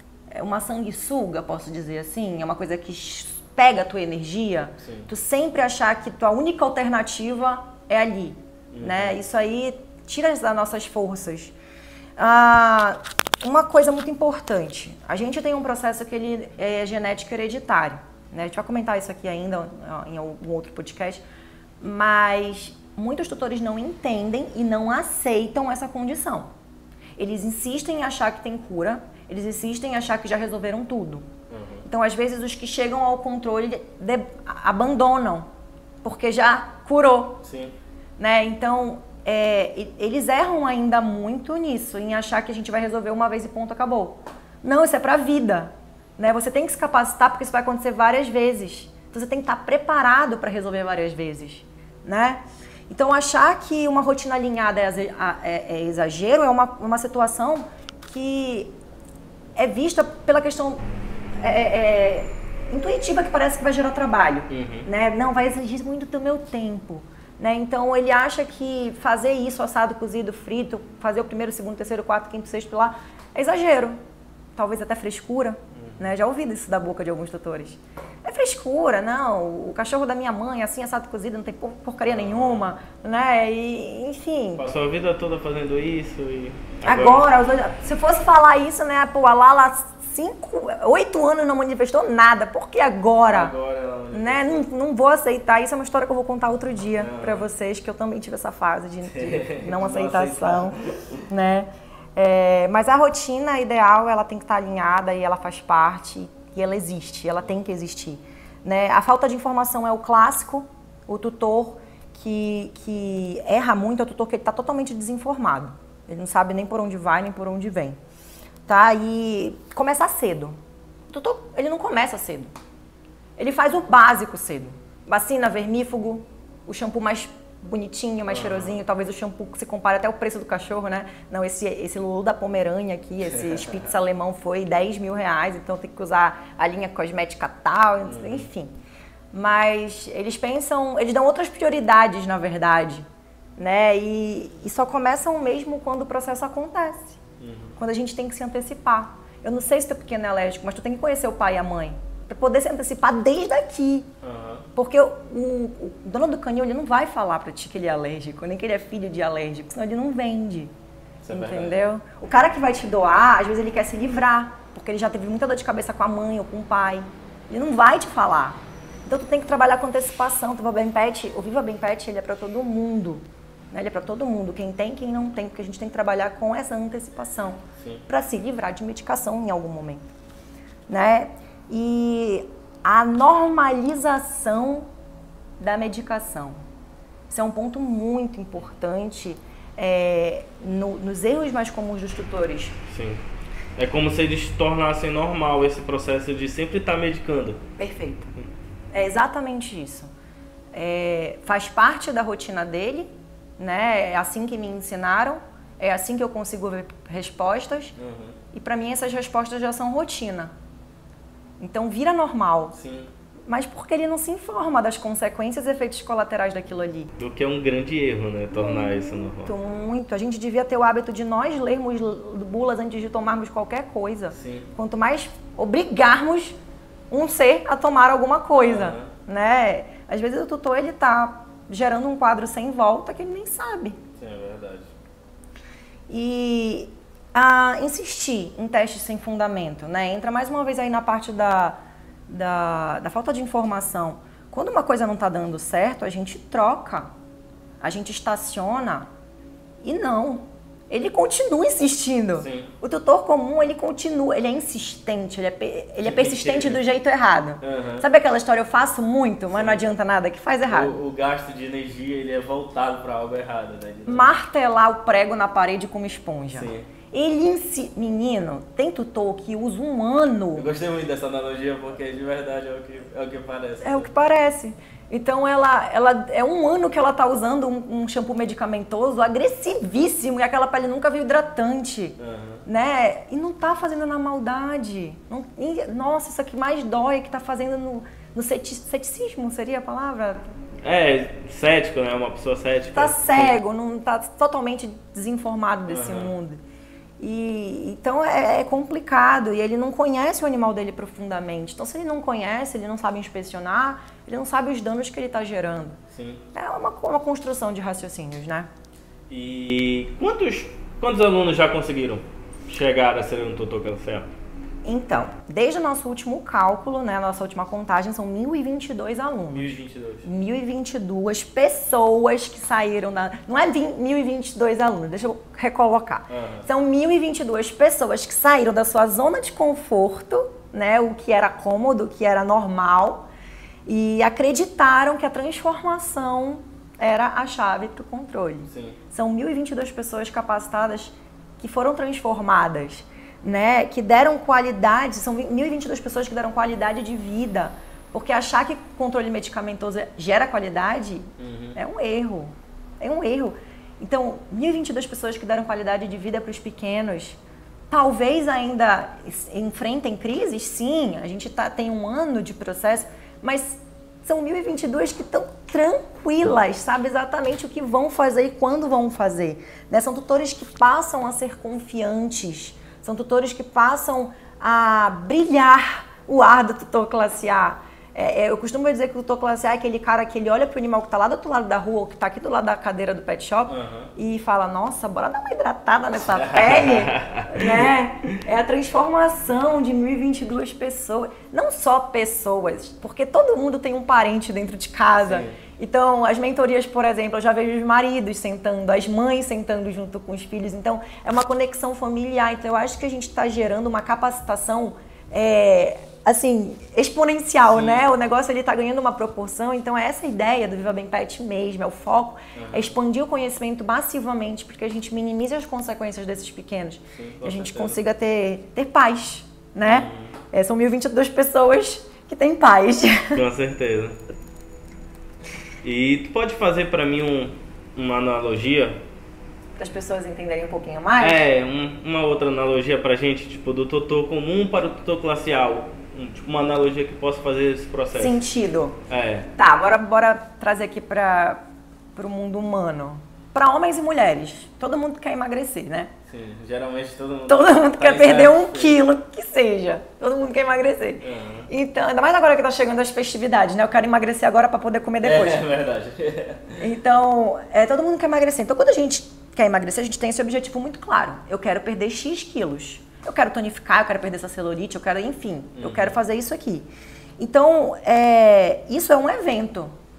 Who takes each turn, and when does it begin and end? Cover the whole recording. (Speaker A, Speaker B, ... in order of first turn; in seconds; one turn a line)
Speaker A: 0.3-11.5
Speaker B: 4.8-5.1
Speaker B: 8.7-9.2
Speaker A: 12.2-21.2
Speaker A: 21.8-26.5
Speaker A: 27.2-31.3
Speaker B: 31.5-31.9
Speaker A: 31.9-35.5
Speaker A: 36.0-37.4
Speaker B: 37.4-37.8
Speaker A: 38.2-58.7
Speaker A: 59.6-60.8
Speaker A: 61.4-74.0
Speaker B: 64.5-64.9
Speaker A: 74.6-84.7
Speaker B: 75.7-76.0
Speaker B: 82.1-82.7
Speaker B: 84.6-87.3
Speaker A: 86.8-93.5
Speaker B: 93.3-94.7
Speaker A: 94.1-118.0
Speaker B: 97.0-97.5
Speaker B: 99.1-101.2
Speaker A: 118.7-120.6
Speaker A: 121.1-122.5
Speaker A: 123.4-138.7
Speaker B: 128.3-128.8
Speaker B: 133.2-133.8
Speaker B: 138.1-138.5
Speaker A: 139.3-143.1
Speaker A: 143.6-147.2
Speaker B: 147.4-147.8
Speaker A: 147.8-154.1
Speaker B: 154.2-154.7
Speaker A: 154.8-160.7
Speaker B: 161.2-161.8
Speaker A: 161.3-180.1
Speaker A: 180.9-184.9
Speaker A: 185.6-186.6
Speaker A: 187.3-192.8
Speaker B: 192.9-193.2
Speaker B: 193.8-197.6
Speaker A: 197.8-198.3
Speaker A: 198.9-200.1
Speaker A: 200.7-208.0
Speaker B: 208.0-208.4
Speaker A: 208.5-210.5
Speaker A: 211.6-212.8
Speaker B: 212.8-213.1
Speaker A: 213.5-217.1
Speaker B: 217.2-219.5
Speaker A: 218.6-226.6
Speaker B: 224.3-224.7
Speaker A: 227.1-234.0
Speaker B: 228.6-229.1
Speaker B: 234.2-234.9
Speaker A: 236.1-247.1
Speaker A: 247.8-249.1
Speaker A: 249.8-261.0
Speaker B: 252.4-252.7
Speaker B: 256.0-256.8
Speaker B: 257.6-258.1
Speaker B: 259.5-259.8
Speaker B: 260.7-264.3
Speaker A: 264.1-270.7
Speaker B: 266.5-266.9
Speaker B: 270.6-274.1
Speaker A: 273.8-290.5
Speaker B: 282.2-282.6
Speaker B: 290.8-293.6
Speaker A: 292.9-296.6
Speaker B: 295.9-296.3
Speaker A: 297.2-306.0
Speaker B: 306.1-306.4
Speaker A: 306.5-308.7
Speaker B: 309.3-314.3
Speaker A: 314.8-333.3
Speaker B: 319.5-320.3
Speaker B: 326.3-326.7
Speaker A: 333.9-357.4
Speaker B: 338.7-339.0
Speaker B: 351.4-351.8
Speaker A: 357.9-423.4
Speaker B: 383.7-384.1
Speaker B: 386.3-387.9
Speaker B: 395.2-395.6
Speaker B: 407.7-408.0
Speaker B: 412.5-412.9
Speaker B: 417.1-418.0
Speaker B: 419.9-420.3
Speaker B: 423.4-424.2
Speaker B: 425.8-429.0
Speaker A: 429.8-431.4
Speaker B: 431.2-438.4
Speaker A: 438.1-439.0
Speaker B: 439.1-439.5
Speaker A: 439.6-441.6
Speaker A: 442.2-446.1
Speaker B: 446.3-449.0
Speaker A: 447.5-455.6
Speaker B: 451.2-451.7
Speaker B: 455.2-456.8
Speaker A: 456.8-466.9
Speaker B: 465.8-466.2
Speaker A: 467.4-469.9